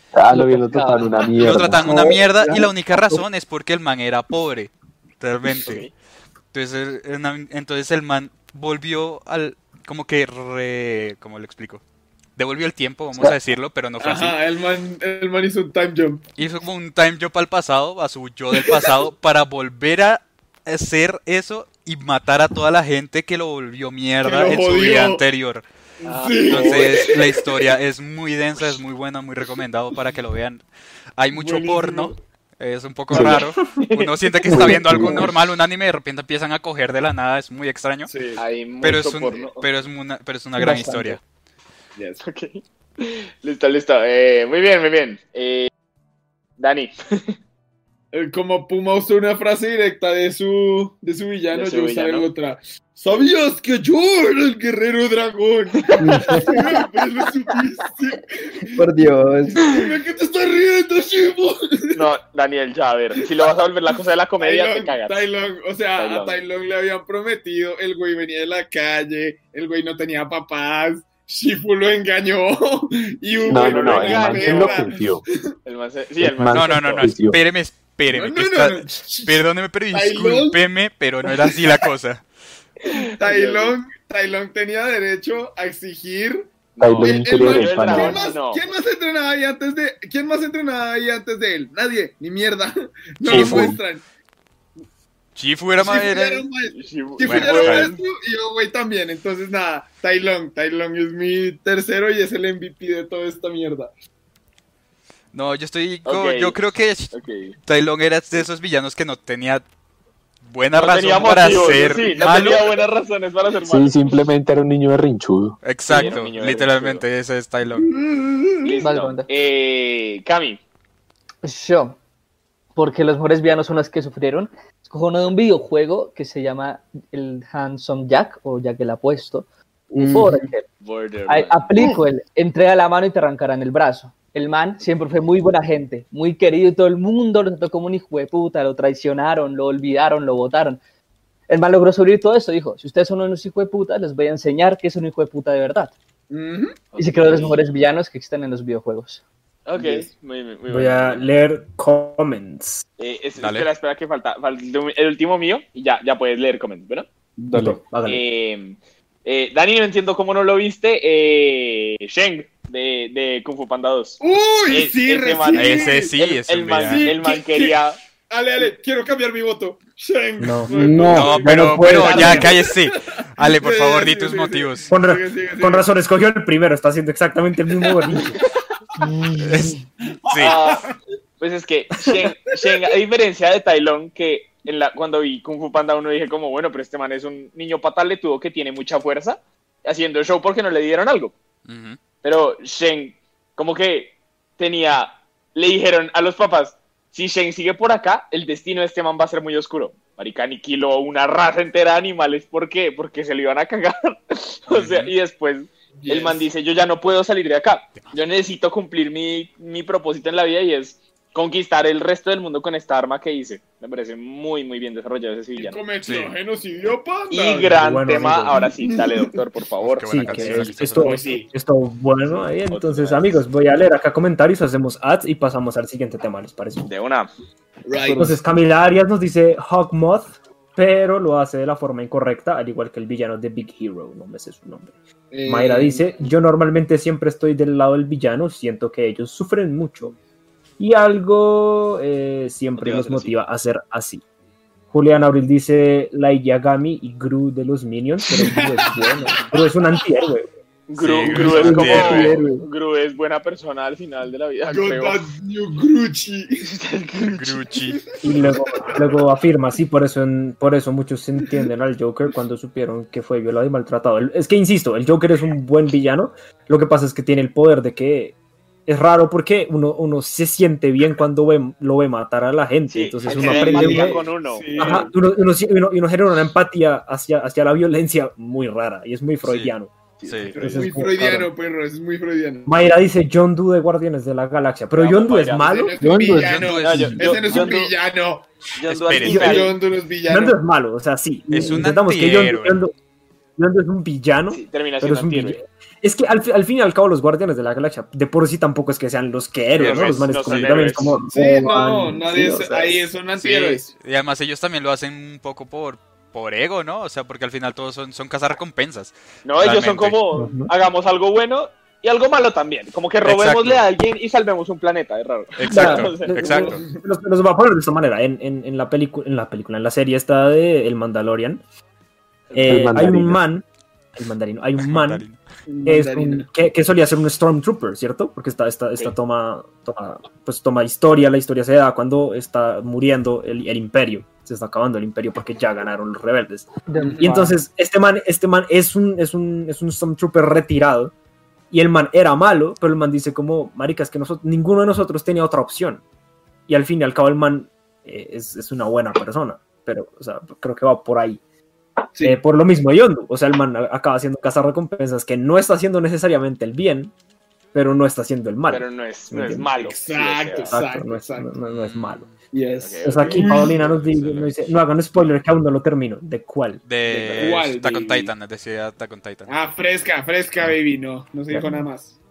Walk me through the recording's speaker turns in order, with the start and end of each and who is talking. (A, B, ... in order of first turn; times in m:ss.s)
0:00.1-0:02.0 A
0:00.3-0:01.4 B
0:01.4-0:05.9 C
0:01.7-0:03.2 D
0:05.6-0:05.9 E
0:06.5-0:11.8 C
0:12.4-0:14.4 C
0:14.0-0:16.2 F
0:16.4-0:25.6 C
0:24.2-0:25.2 F
0:26.0-0:27.6 F
0:26.0-0:27.2 E
0:26.4-0:30.6 C
0:31.2-0:38.1 C
0:31.3-0:32.1 F
0:33.1-0:33.4 D
0:33.2-0:34.2 E
0:34.5-0:35.3 D
0:34.6-0:35.2 A
0:38.1-0:38.4 F
0:38.4-0:39.7 E
0:38.8-0:41.2 C
0:40.6-0:41.2 B
0:42.0-0:42.2 F
0:42.2-0:45.7 E
0:46.6-0:47.3 E
0:48.1-0:58.8 F
0:51.5-0:52.3 E
0:56.0-0:56.8 D
0:58.8-0:59.6 D
0:59.6-1:02.0 F
1:02.0-1:05.2 E
1:04.4-1:15.5 F
1:06.0-1:06.4 E
1:13.5-1:15.2 A
1:13.5-1:14.9 E
1:15.7-1:17.2 E
1:16.2-1:17.4 A
1:16.5-1:22.2 C
1:18.1-1:20.6 F
1:22.9-1:23.8 E
1:23.2-1:34.0 F
1:26.8-1:28.6 E
1:26.8-1:28.2 A
1:33.3-1:33.8 D
1:33.3-1:33.8 A
1:35.4-1:36.5 C
1:35.8-1:43.9 F
1:36.7-1:38.0 E
1:37.2-1:37.9 C
1:45.3-1:47.1 C
1:46.1-1:46.6 E
1:47.1-1:47.6 E
1:47.7-1:49.6 C
1:50.4-1:52.8 C
1:50.7-1:54.1 E
1:53.7-1:55.6 A
1:55.6-1:58.0 C
1:55.9-1:57.0 E
1:57.8-1:58.8 F
1:58.6-2:00.6 E
1:58.8-1:59.3 B
2:01.4-2:02.0 B
2:02.8-2:10.7 B
2:09.9-2:10.5 D
2:10.8-2:11.7 E
2:11.3-2:20.8 B
2:21.5-2:25.9 B
2:26.3-2:27.0 F
2:26.9-2:27.6 E
2:27.0-2:29.2 B
2:29.7-2:31.3 E
2:29.8-2:30.1 F
2:30.7-2:32.8 G
2:33.0-2:37.1 E
2:33.4-2:33.7 C
2:37.4-2:37.8 D
2:37.5-2:37.8 A
2:37.5-2:38.2 G
2:38.0-2:48.0 E
2:44.2-2:46.2 F
2:45.6-2:47.2 C
2:46.8-2:55.9 F
2:50.4-2:50.8 G
2:50.7-2:52.4 D
2:51.1-2:54.9 C
2:51.9-2:52.6 E
2:54.9-2:58.4 G
2:59.0-2:59.8 B
2:59.4-3:00.5 C
3:00.1-3:01.0 F
3:00.4-3:11.4 E
3:11.7-3:12.0 C
3:12.2-3:35.8 E
3:24.7-3:25.1 C
3:26.0-3:26.5 F
3:35.6-3:37.8 F
3:36.0-3:36.3 C
3:37.3-3:40.7 E
3:37.8-3:38.6 G
3:38.6-3:39.4 F
3:39.8-3:41.2 C
3:40.1-3:46.9 G
3:40.6-3:41.5 F
3:42.3-3:43.4 E
3:46.8-3:47.3 E
3:47.8-3:48.4 F
3:48.0-3:48.4 D
3:48.2-3:54.9 G
3:55.3-3:56.3 F
3:55.4-4:00.2 G
4:00.8-4:04.2 G
4:02.8-4:03.3 E
4:04.9-4:10.5 G
4:08.3-4:09.2 F
4:10.9-4:15.2 E
4:11.0-4:12.3 C
4:11.3-4:12.7 D
4:14.7-4:16.7 F
4:16.6-4:17.6 E
4:17.3-4:18.0 C
4:17.9-4:19.0 F
4:18.2-4:28.4 G
4:28.9-4:34.2 G
4:32.9-4:35.1 E
4:33.3-4:35.1 F
4:34.8-4:39.9 G
4:39.4-4:39.7 C
4:40.2-4:40.8 E
4:40.2-4:40.6 C
4:40.5-4:42.8 F
4:40.6-4:41.5 G
4:42.7-4:46.0 G
4:44.9-4:45.9 E
4:45.6-4:48.6 F
4:46.0-4:47.2 D
4:46.4-4:47.7 C
4:46.8-4:48.0 E
4:48.8-4:49.8 E
4:48.9-4:49.6 C
4:49.2-4:49.7 G
4:49.3-4:50.6 F
4:50.2-4:52.9 G
4:51.5-4:52.8 C
4:53.6-5:03.1 G
4:54.5-4:55.6 E
4:59.8-5:01.2 E
4:59.8-5:00.8 C
5:01.3-5:03.9 F
5:03.4-5:10.2 C
5:09.4-5:16.7 E
5:10.3-5:10.7 G
5:13.2-5:13.9 C
5:15.6-5:16.8 C
5:15.7-5:21.6 G
5:16.4-5:17.0 F
5:22.5-5:23.6 G
5:22.6-5:23.4 A
5:24.2-5:25.2 G
5:24.8-5:25.4 C
5:25.7-5:26.5 F
5:25.8-5:41.1 G
5:36.9-5:37.5 B
5:37.0-5:37.4 F
5:41.7-5:46.0 G
5:46.7-5:51.4 G
5:52.1-5:52.4 F
5:52.2-5:57.1 G
5:57.7-5:59.7 G
5:58.7-6:00.8 E
5:59.7-6:01.6 F
6:00.6-6:02.3 G
6:01.7-6:02.4 C
6:02.5-6:04.0 F
6:02.8-6:04.7 E
6:03.0-6:06.8 G
6:06.9-6:09.5 C
6:07.1-6:08.3 F
6:09.5-6:12.2 F
6:11.5-6:11.8 G